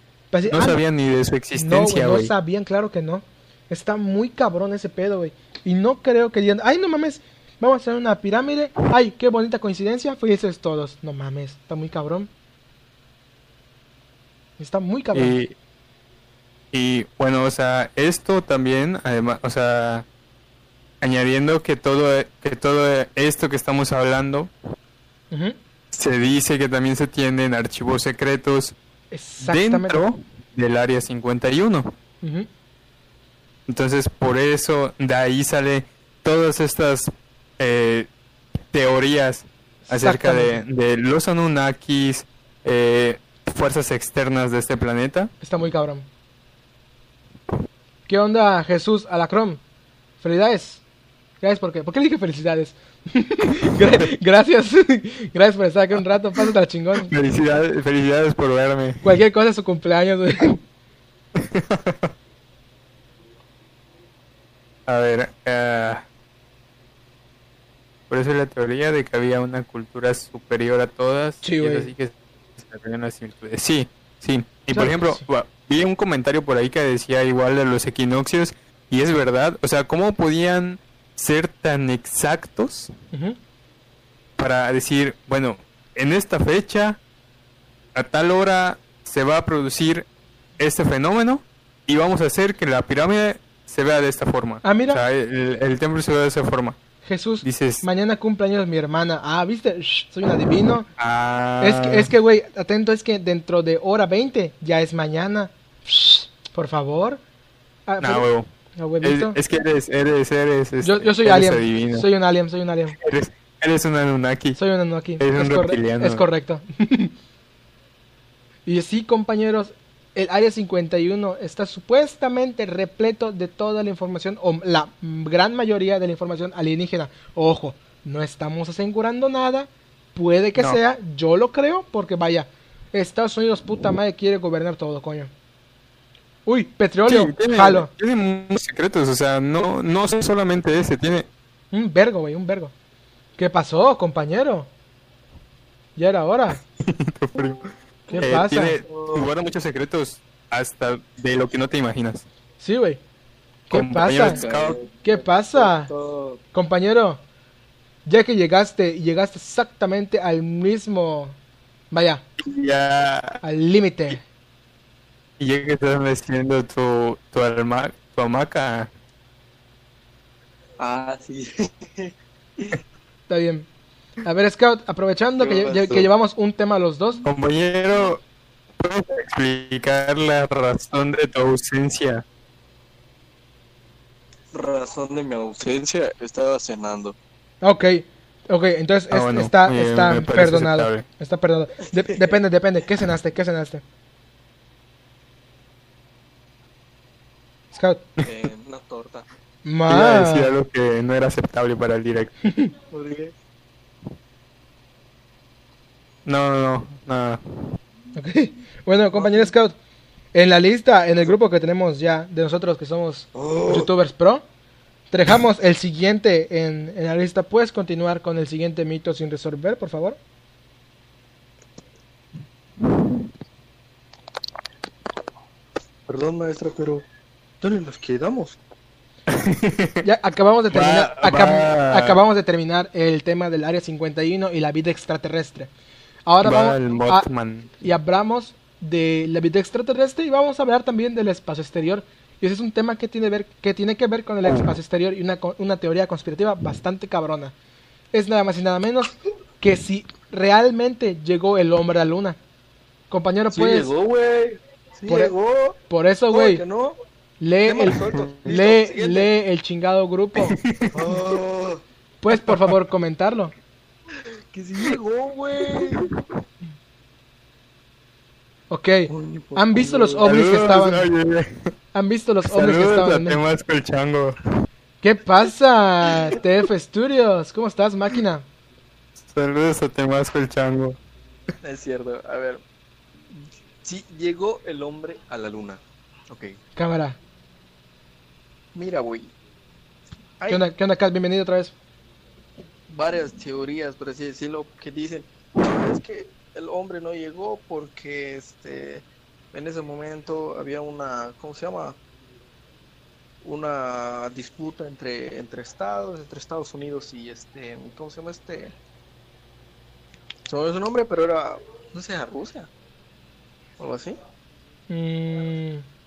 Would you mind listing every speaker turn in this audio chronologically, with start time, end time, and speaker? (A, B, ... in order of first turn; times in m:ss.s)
0:00.3-0:00.8 A
0:00.5-0:02.3 B
0:01.6-0:12.3 A
0:14.6-0:15.4 A
0:15.1-0:15.5 B
0:16.7-0:20.1 B
0:21.0-0:24.5 B
0:25.3-0:25.6 A
0:25.9-0:28.8 B
0:29.1-0:30.0 A
0:29.4-0:31.9 B
0:32.2-0:32.5 A
0:33.7-0:38.1 B
0:38.7-0:45.3 B
0:39.9-0:40.6 A
0:45.4-0:46.1 A
0:48.1-0:49.6 A
0:50.2-0:50.8 A
0:51.4-0:57.1 A
0:57.1-0:59.0 B
0:59.0-1:00.6 A
1:01.4-1:02.1 B
1:04.9-1:06.1 B
1:08.1-1:22.9 B
1:11.4-1:11.9 A
1:14.7-1:15.2 A
1:23.1-1:23.4 A
1:24.4-1:27.0 B
1:28.0-1:30.1 B
1:30.6-1:36.8 B
1:34.6-1:35.0 A
1:37.0-1:40.9 A
1:37.4-1:37.8 B
1:41.0-1:42.1 B
1:41.6-1:47.2 A
1:47.9-1:49.4 A
1:48.0-1:48.5 B
1:49.0-1:52.1 B
1:50.8-1:53.0 A
1:53.0-1:54.6 B
1:54.6-1:57.1 A
1:55.2-1:56.3 B
1:58.7-2:15.3 A
2:16.5-2:17.9 A
2:17.1-2:21.3 B
2:21.7-2:22.7 A
2:23.4-2:24.7 A
2:26.0-2:26.6 A
2:26.8-2:32.3 B
2:28.1-2:29.3 C
2:28.1-2:28.8 A
2:32.6-2:33.0 A
2:33.7-2:34.4 A
2:33.7-2:34.8 B
2:34.2-2:36.4 C
2:35.0-2:35.9 A
2:36.5-2:37.2 A
2:38.1-2:41.4 A
2:41.9-2:42.2 A
2:42.4-2:43.4 B
2:43.4-2:44.2 A
2:45.4-2:48.9 B
2:50.8-2:52.8 C
2:53.3-2:53.7 A
2:54.2-2:57.2 A
2:55.4-2:56.1 C
2:57.2-2:58.2 B
2:58.8-3:02.2 B
3:04.5-3:07.2 C
3:07.6-3:13.8 A
3:09.1-3:11.0 B
3:12.1-3:12.4 C
3:17.7-3:18.1 A
3:18.2-3:19.3 C
3:19.6-3:20.5 A
3:19.9-3:22.4 B
3:22.4-3:22.7 A
3:22.9-3:23.4 C
3:26.3-3:27.8 B
3:28.2-3:29.8 A
3:29.2-3:29.5 C
3:30.3-3:34.4 A
3:33.4-3:33.9 C
3:35.1-3:40.2 A
3:46.1-3:47.0 C
3:47.6-3:48.6 C
3:49.3-3:50.0 B
3:50.0-3:55.7 A
3:50.7-3:52.2 B
3:56.3-3:57.3 A
3:56.4-3:57.7 B
3:57.8-4:07.5 A
4:04.4-4:04.7 B
4:08.1-4:12.4 A
4:13.1-4:13.9 A
4:13.5-4:15.8 C
4:15.1-4:15.3 A
4:15.9-4:16.6 A
4:16.3-4:17.0 C
4:17.4-4:20.6 A
4:17.7-4:19.3 C
4:20.4-4:21.2 B
4:20.9-4:21.8 C
4:22.2-4:23.5 A
4:22.3-4:22.7 B
4:24.5-4:26.1 C
4:25.7-4:26.2 B
4:28.7-4:31.1 A
4:29.1-4:30.5 C
4:30.2-4:31.7 B
4:31.9-4:33.4 A
4:32.5-4:34.4 B
4:35.0-4:38.5 A
4:39.2-4:41.0 B
4:41.6-4:42.6 C
4:43.3-4:46.6 C
4:46.8-4:47.2 A
4:48.8-4:49.3 C
4:50.4-4:50.7 C
4:50.5-4:51.7 A
4:52.9-5:02.0 C
5:03.4-5:08.7 C
5:10.5-5:12.7 C
5:13.8-5:14.2 C
5:14.9-5:15.8 A